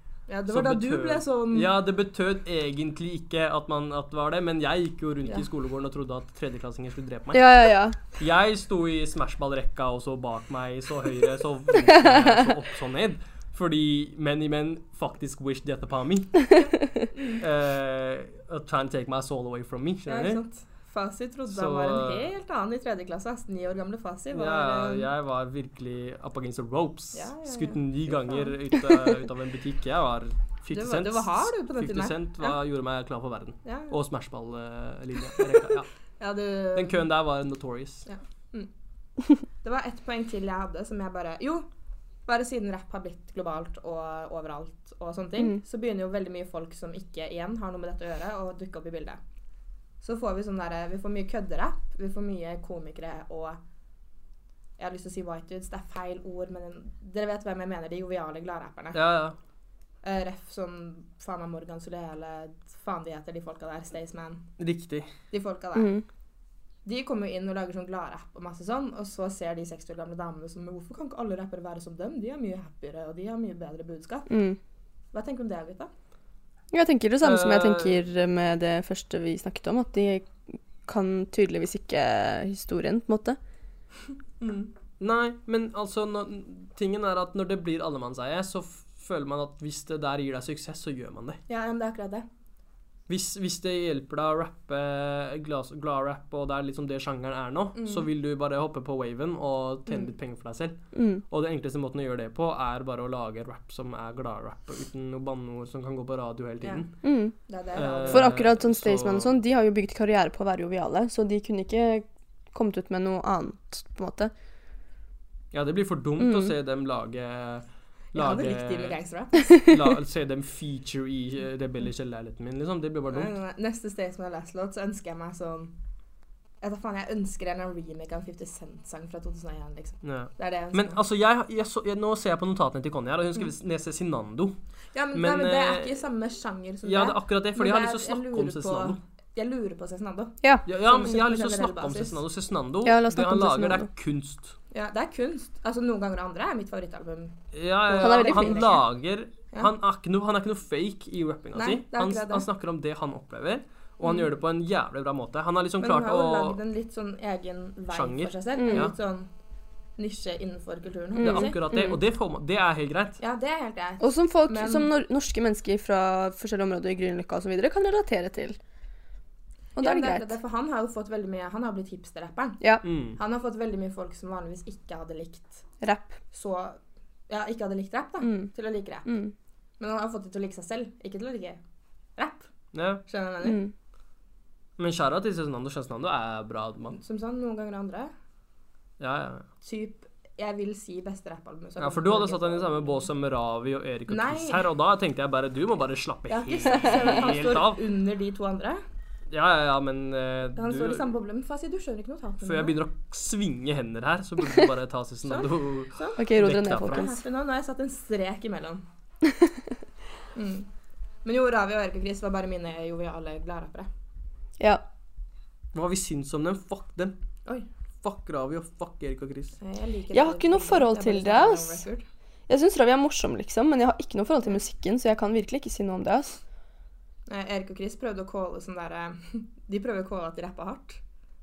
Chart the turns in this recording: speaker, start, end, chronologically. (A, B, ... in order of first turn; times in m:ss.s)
0:00.3-0:01.7 A
0:00.5-0:07.5 B
0:07.3-0:08.0 C
0:08.2-0:16.6 B
0:11.9-0:12.5 C
0:17.1-0:17.4 A
0:17.4-0:20.4 B
0:20.1-0:25.1 A
0:21.5-0:22.3 B
0:24.3-0:35.9 B
0:27.1-0:28.5 A
0:30.7-0:32.6 A
0:33.6-0:33.9 A
0:36.2-0:37.0 A
0:36.7-0:38.0 B
0:38.0-0:38.7 A
0:39.6-0:41.7 A
0:42.3-0:49.2 A
0:50.0-0:53.6 A
0:54.8-0:59.0 A
0:58.9-0:59.4 B
1:00.0-1:04.4 A
1:04.6-1:05.1 B
1:05.3-1:05.9 A
1:05.7-1:06.0 C
1:06.8-1:14.3 A
1:14.3-1:14.6 C
1:15.1-1:15.9 A
1:16.7-1:20.3 C
1:17.2-1:18.0 B
1:20.8-1:23.4 C
1:24.4-1:31.4 B
1:31.5-1:32.2 A
1:33.1-1:40.8 B
1:37.7-1:38.1 A
1:40.9-1:41.2 C
1:41.3-1:46.9 B
1:47.0-1:47.3 C
1:47.4-1:48.4 A
1:47.7-1:49.3 B
1:48.1-1:54.3 C
1:55.5-2:03.3 B
1:56.2-1:56.5 C
1:58.1-1:59.6 A
2:03.1-2:05.7 A
2:06.6-2:11.0 A
2:10.0-2:14.6 B
2:14.9-2:22.2 A
2:15.1-2:16.0 B
2:16.8-2:19.0 B
2:20.6-2:24.5 B
2:22.8-2:23.9 C
2:24.7-2:28.8 A
2:27.5-2:36.6 B
2:28.0-2:28.7 C
2:31.5-2:32.5 A
2:35.8-2:39.3 A
2:37.9-2:38.9 B
2:38.6-2:38.9 C
2:40.0-2:41.6 A
2:41.2-2:41.9 C
2:41.2-2:43.2 B
2:43.2-2:44.9 A
2:44.0-2:48.6 C
2:49.8-2:52.6 A
2:49.8-2:50.3 C
2:52.8-2:53.2 B
2:53.2-2:55.6 A
2:55.8-2:56.2 C
2:56.3-2:56.8 A
2:57.3-2:59.2 A
2:58.2-2:58.5 C
2:59.0-2:59.3 C
2:59.8-3:01.6 A
3:02.2-3:02.5 A
3:02.7-3:03.0 B
3:03.0-3:03.6 A
3:03.4-3:03.7 C
3:04.8-3:07.0 B
3:07.0-3:08.1 A
3:09.0-3:09.4 B
3:09.6-3:13.1 A
3:11.8-3:17.8 B
3:14.1-3:14.6 A
3:16.3-3:18.8 A
3:19.3-3:21.1 B
3:20.6-3:22.8 A
3:22.4-3:27.1 B
3:25.2-3:28.8 A
3:26.2-3:27.2 C
3:30.3-3:30.7 A
3:31.2-3:33.9 A
3:35.7-3:37.1 B
3:38.0-3:39.6 B
3:39.6-3:42.0 A
3:40.1-3:41.8 C
3:42.5-3:46.4 C
3:47.3-3:51.0 A